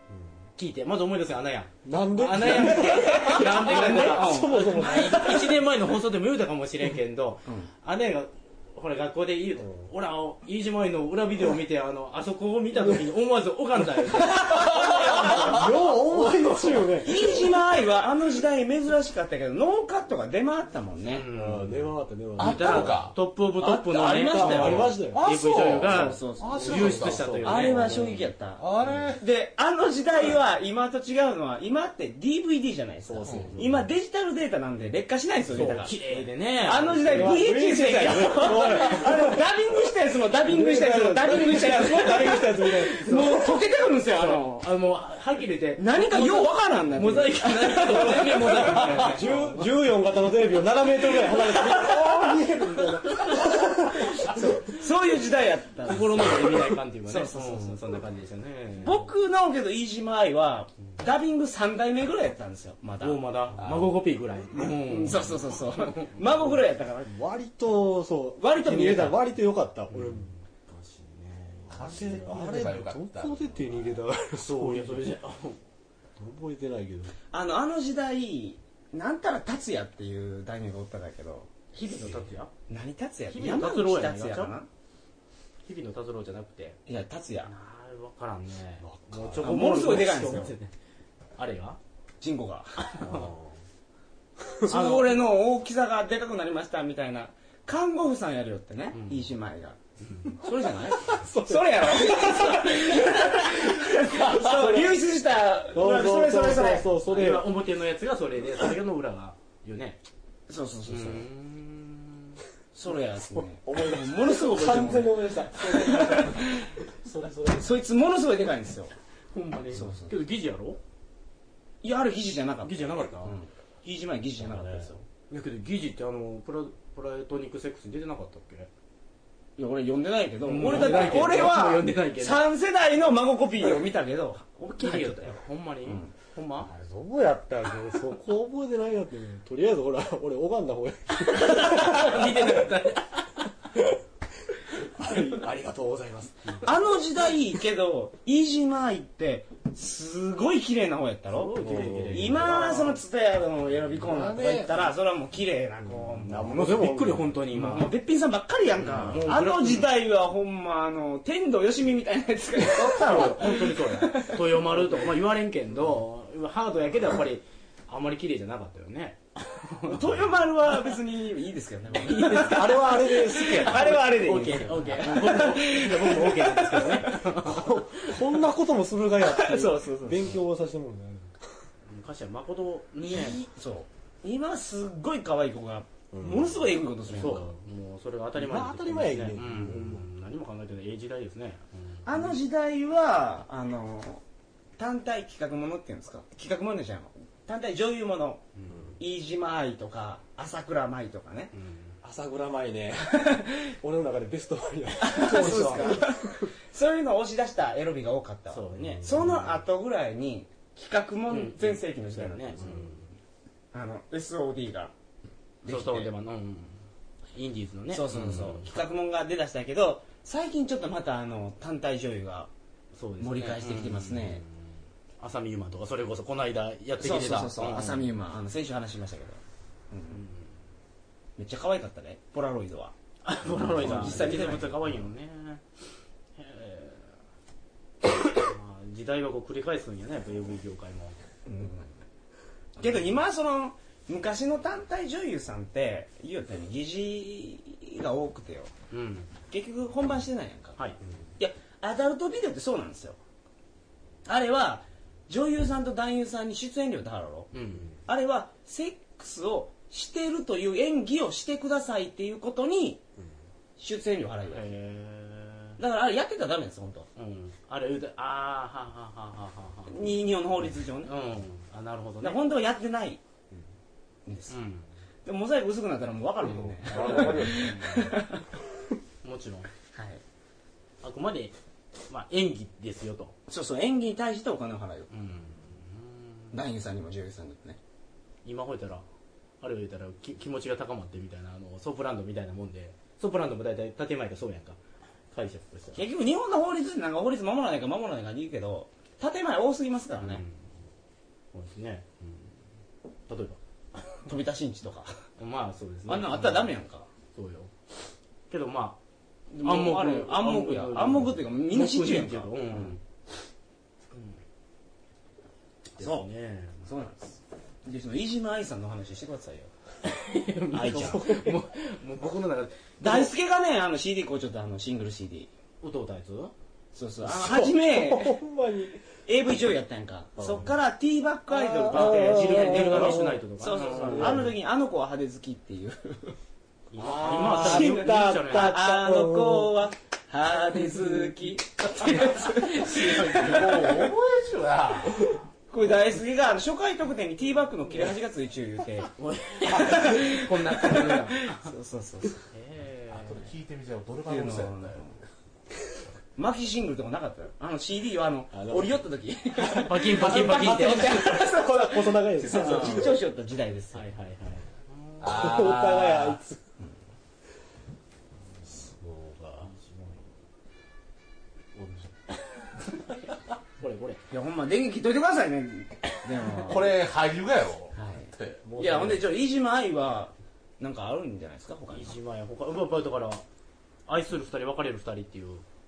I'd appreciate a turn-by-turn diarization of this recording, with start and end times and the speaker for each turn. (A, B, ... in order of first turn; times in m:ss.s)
0:00.6-0:15.3 A
0:01.8-0:05.5 B
0:02.8-0:05.0 C
0:09.6-0:09.9 B
0:14.4-0:15.7 C
0:14.6-0:17.5 B
0:14.8-0:15.6 D
0:16.9-0:21.3 C
0:21.1-0:21.8 A
0:21.3-0:23.0 B
0:22.4-0:23.1 D
0:22.4-0:28.0 A
0:23.6-0:25.2 B
0:24.1-0:24.9 C
0:24.2-0:29.2 D
0:25.9-0:28.2 B
0:25.9-0:36.0 C
0:28.8-0:29.1 B
0:33.0-0:33.9 B
0:33.2-0:33.6 D
0:35.5-0:37.5 A
0:35.5-0:36.3 B
0:36.6-0:44.7 C
0:36.9-0:39.4 B
0:38.1-0:38.8 A
0:40.3-0:43.4 B
0:44.2-0:49.7 A
0:45.8-0:49.3 C
0:47.9-0:54.5 B
0:51.7-0:52.2 C
0:54.2-0:57.8 C
0:55.8-0:59.1 A
0:58.8-1:03.2 C
1:03.0-1:06.6 A
1:03.6-1:03.9 D
1:04.6-1:07.1 C
1:07.1-1:10.3 B
1:08.4-1:09.2 C
1:09.9-1:12.2 A
1:11.7-1:13.7 D
1:11.7-1:15.1 B
1:14.4-1:15.6 A
1:16.2-1:17.2 B
1:17.3-1:24.7 C
1:21.8-1:22.5 A
1:23.3-1:24.6 A
1:25.7-1:26.8 A
1:26.9-1:27.5 C
1:27.5-1:30.7 A
1:28.8-1:29.6 B
1:29.4-1:30.5 C
1:31.4-1:31.8 A
1:32.2-1:32.9 C
1:32.8-1:33.3 A
1:33.0-1:33.6 B
1:34.4-1:34.7 B
1:34.7-1:39.8 C
1:34.7-1:35.2 A
1:38.9-1:39.3 A
1:40.0-1:40.3 A
1:40.4-1:46.9 C
1:41.0-1:45.0 B
1:45.7-1:47.5 B
1:47.1-1:50.0 A
1:50.5-1:51.3 C
1:50.9-1:52.4 A
1:52.7-1:56.7 C
1:53.3-1:57.8 B
1:57.6-1:58.9 C
1:59.3-2:00.8 A
1:59.7-2:00.2 C
2:01.8-2:05.0 C
2:02.6-2:03.3 A
2:04.4-2:04.9 B
2:05.3-2:08.7 A
2:09.6-2:16.1 C
2:10.4-2:12.4 A
2:14.7-2:16.7 A
2:16.6-2:22.6 B
2:21.2-2:23.5 A
2:24.8-2:26.9 B
2:26.6-2:36.9 C
2:31.3-2:33.0 A
2:31.6-2:32.7 B
2:34.0-2:34.9 B
2:35.9-2:37.5 B
2:36.4-2:37.9 A
2:37.5-2:44.8 C
2:38.8-2:39.9 A
2:42.6-2:50.2 A
2:49.8-2:57.3 C
2:51.9-2:58.3 A
2:52.3-2:55.1 B
2:57.4-3:01.6 B
2:59.2-3:00.4 C
3:01.9-3:03.5 A
3:03.0-3:07.5 C
3:06.1-3:06.7 B
3:07.1-3:12.2 A
3:08.4-3:10.1 B
3:12.0-3:14.2 C
3:14.8-3:21.5 C
3:18.7-3:19.0 B
3:21.5-3:22.0 A
3:22.0-3:26.5 B
3:25.0-3:33.0 C
3:25.2-3:26.0 A
3:28.5-3:29.2 A
3:28.8-3:29.6 B
3:31.3-3:33.0 A
3:33.7-3:34.9 C
3:35.6-3:36.1 C
3:35.7-3:36.8 A
3:37.3-3:38.7 A
3:37.9-3:42.5 C
3:42.9-3:44.5 A
3:43.2-3:44.4 C
3:45.2-3:48.1 A
3:47.0-3:50.2 C
3:51.4-3:52.9 C
3:53.2-3:55.6 A
3:53.6-3:54.8 C
3:53.9-3:54.2 B
3:56.4-3:57.1 A
3:58.3-4:01.2 A
4:01.5-4:01.9 C
4:02.8-4:08.7 C
4:08.9-4:09.3 A
4:09.5-4:10.8 C
4:11.4-4:13.2 C
4:14.2-4:17.5 C
4:17.5-4:17.9 A
4:18.1-4:23.0 C
4:23.8-4:24.7 C
4:24.5-4:25.8 A
4:25.8-4:27.1 C
4:27.2-4:30.1 A
4:29.9-4:31.1 C
4:31.0-4:32.4 A
4:32.2-4:33.2 C
4:34.3-4:34.6 C
4:34.5-4:34.9 A
4:35.2-4:38.4 C
4:36.4-4:38.1 B
4:37.0-4:38.0 A
4:39.2-4:39.7 A
4:39.9-4:40.2 C
4:41.0-4:41.5 A
4:42.1-4:43.4 A
4:43.5-4:45.1 C
4:45.1-4:46.5 A
4:46.5-4:47.8 C
4:48.4-4:49.0 A
4:49.6-4:54.8 A
4:55.3-4:56.0 A
4:55.9-5:00.4 C
5:00.2-5:00.6 A
5:01.5-5:02.5 A
5:03.3-5:04.2 A
5:04.2-5:05.2 C
5:05.4-5:06.7 A
5:06.1-5:07.1 C
5:07.3-5:07.7 A
5:08.5-5:09.0 A
5:09.5-5:13.0 C
5:09.6-5:13.0 A
5:14.1-5:14.4 A
5:15.9-5:16.8 A
5:16.0-5:16.3 C
5:16.8-5:19.7 C
5:20.0-5:23.3 A
5:20.7-5:21.3 C
5:20.8-5:21.6 B
5:23.0-5:25.5 C
5:25.8-5:26.5 A
5:26.9-5:28.4 C
5:27.2-5:29.0 B
5:29.3-5:36.4 C
5:30.4-5:30.7 B
5:31.5-5:34.5 B
5:31.8-5:34.5 A
5:36.9-5:38.8 A
5:37.0-5:39.7 B
5:37.2-5:43.9 C
5:42.0-5:44.1 A
5:43.3-5:45.4 D
5:45.7-5:49.1 C
5:49.2-5:51.7 A
5:49.6-5:52.4 C
5:52.5-5:53.5 A
5:53.1-5:55.0 D
5:54.3-5:55.2 C
5:56.4-6:04.1 C
5:58.5-5:59.0 B
5:59.6-6:01.4 A
6:00.0-6:03.2 B
6:02.5-6:03.0 A
6:03.9-6:05.6 A
6:05.2-6:06.4 D
6:05.2-6:06.6 B
6:08.6-6:09.7 B
6:09.6-6:10.3 A
6:11.8-6:12.1 B
6:12.8-6:13.2 A
6:13.8-6:14.2 A
6:14.3-6:16.9 C
6:16.6-6:18.6 D
6:17.9-6:22.2 C
6:18.6-6:19.3 B
6:21.9-6:23.4 A
6:24.1-6:25.6 A